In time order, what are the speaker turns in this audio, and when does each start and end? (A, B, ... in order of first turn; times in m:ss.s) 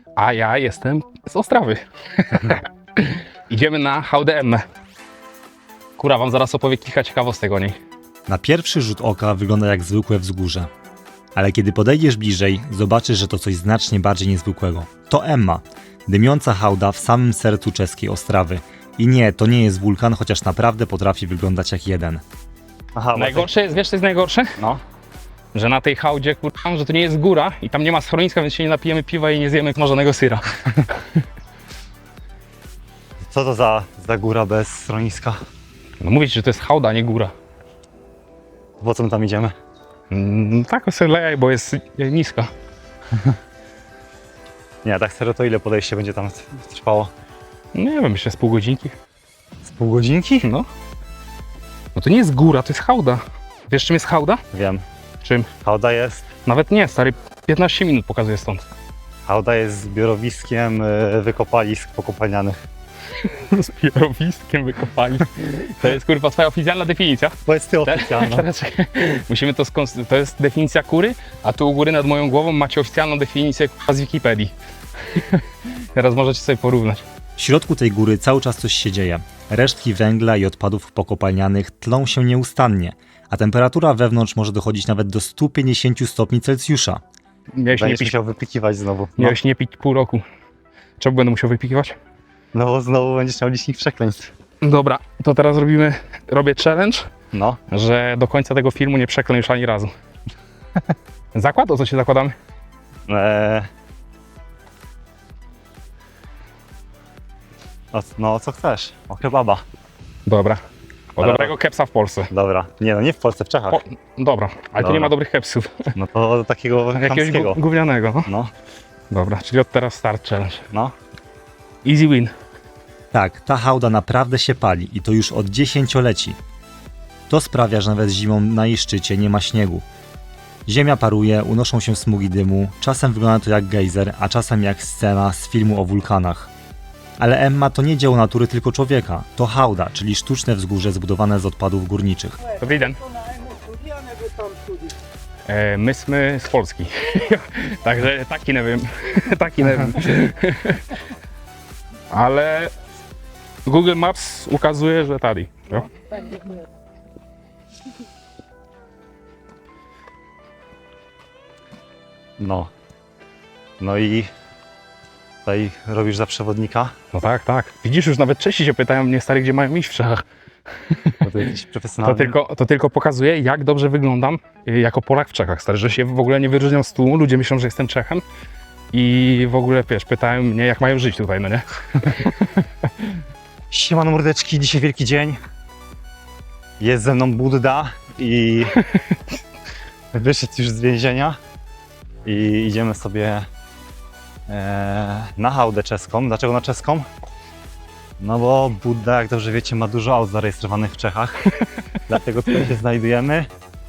0:00.2-0:04.6 A
0:06.0-0:07.7 A
0:08.3-0:10.7 B
0:11.4-0:22.2 B
0:22.9-0:23.5 C
0:23.1-0:24.5 A
0:25.5-0:31.0 A
0:33.3-0:35.4 C
0:36.0-0:37.3 A
0:38.8-0:39.5 C
0:40.1-0:42.5 A
0:44.8-0:47.1 C
0:47.7-0:48.9 A
0:49.6-0:50.5 C
0:51.9-0:54.4 A
0:54.5-0:54.8 C
0:55.6-0:56.2 C
0:56.4-0:58.6 A
0:59.2-1:02.6 C
1:03.2-1:07.3 A
1:07.4-1:08.4 C
1:07.8-1:14.5 A
1:15.1-1:17.0 A
1:17.4-1:27.0 B
1:27.5-1:28.1 A
1:27.7-1:29.4 C
1:29.2-1:30.2 A
1:31.0-1:31.9 A
1:32.5-1:34.3 C
1:34.6-1:37.1 A
1:37.3-1:37.6 C
1:37.7-1:39.9 A
1:41.3-1:42.3 A
1:43.1-1:43.7 C
1:47.9-1:49.6 C
1:50.2-1:50.6 A
1:51.2-1:52.3 A
1:51.2-1:51.5 C
1:52.3-1:53.8 C
1:53.7-1:55.9 A
1:54.8-1:55.1 C
1:55.9-1:57.6 C
1:56.9-1:58.3 A
1:58.2-1:58.5 C
1:59.1-2:00.6 A
2:01.8-2:02.3 A
2:03.1-2:06.4 B
2:07.3-2:09.8 B
2:10.6-2:16.5 B
2:17.2-2:22.4 B
2:22.6-2:23.0 A
2:25.5-2:30.8 A
2:32.1-2:32.7 A
2:33.6-2:35.9 A
2:42.4-2:42.7 C
2:43.8-2:44.3 C
2:45.4-2:46.9 C
2:47.1-2:50.2 A
2:50.8-2:51.3 A
2:51.2-2:52.3 C
2:52.0-2:58.2 A
2:58.9-3:03.0 A
3:03.7-3:05.4 C
3:06.8-3:08.8 C
3:10.1-3:11.4 C
3:12.2-3:13.4 C
3:14.5-3:17.0 C
3:18.2-3:21.5 C
3:22.1-3:23.5 C